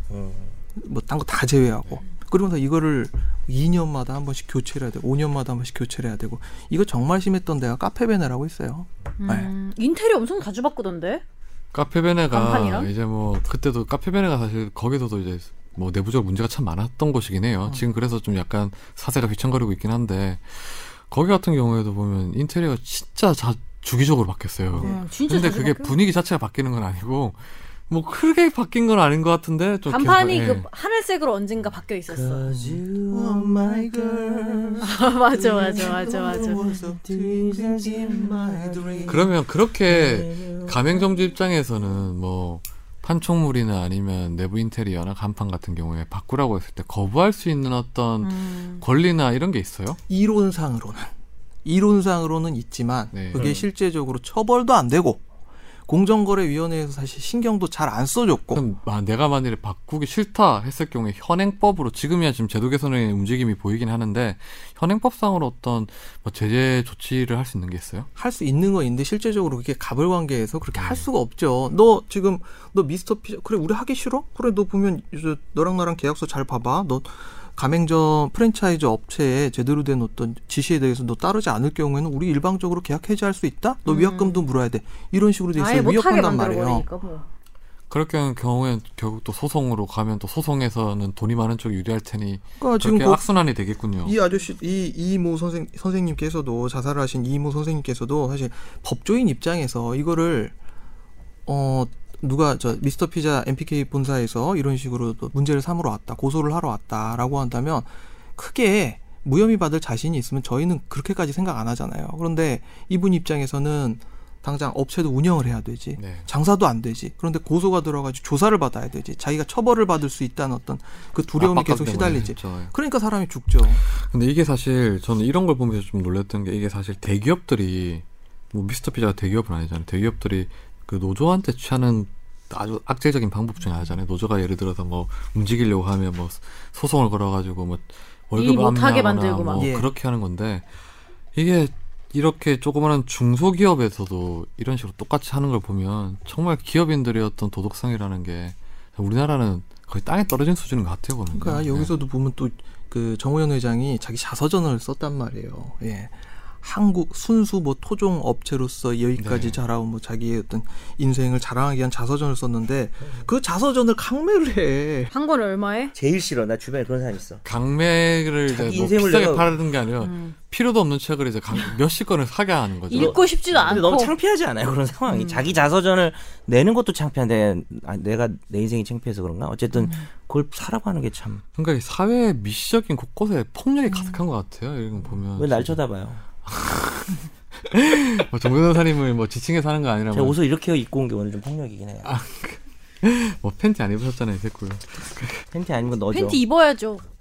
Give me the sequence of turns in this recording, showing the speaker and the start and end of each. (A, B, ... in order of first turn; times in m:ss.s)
0:00.1-0:00.6 A
0:00.7-0:09.5 B
0:09.2-0:11.2 C
0:11.7-0:30.6 D
0:12.3-0:12.9 C
0:24.7-0:25.0 B
0:24.8-0:26.0 C
0:29.9-0:32.4 C
0:32.1-0:39.3 A
0:32.6-0:39.3 B
0:34.8-0:36.6 C
0:39.1-0:50.0 D
0:39.9-0:41.0 A
0:48.2-0:48.8 C
0:50.1-0:51.1 B
0:51.6-0:55.2 B
0:53.1-0:53.5 D
0:53.3-0:53.6 A
0:55.9-0:58.6 B
0:58.5-1:08.1 D
1:08.2-1:26.8 B
1:10.8-1:11.0 D
1:23.8-1:24.4 C
1:25.5-1:27.3 C
1:27.9-1:34.2 D
1:32.6-1:33.2 B
1:34.0-1:40.5 B
1:41.4-2:03.8 B
1:56.0-1:56.3 D
2:01.4-2:02.7 D
2:03.8-2:20.6 D
2:18.4-2:19.7 C
2:19.6-2:19.9 B
2:21.3-2:31.9 D
2:31.3-2:45.1 B
2:39.2-2:39.6 D
2:45.1-2:45.9 C
2:45.9-2:47.4 A
2:47.4-2:53.2 D
2:48.5-2:49.5 A
2:50.0-2:50.3 C
2:52.9-2:54.1 C
2:52.9-3:01.4 A
2:55.1-2:55.4 C
2:59.7-3:00.0 C
3:01.6-3:05.8 D
3:03.9-3:04.2 C
3:05.4-3:06.2 A
3:06.4-3:10.4 D
3:10.1-3:12.1 A
3:12.0-3:15.4 D
3:15.5-3:16.4 A
3:16.1-3:17.0 C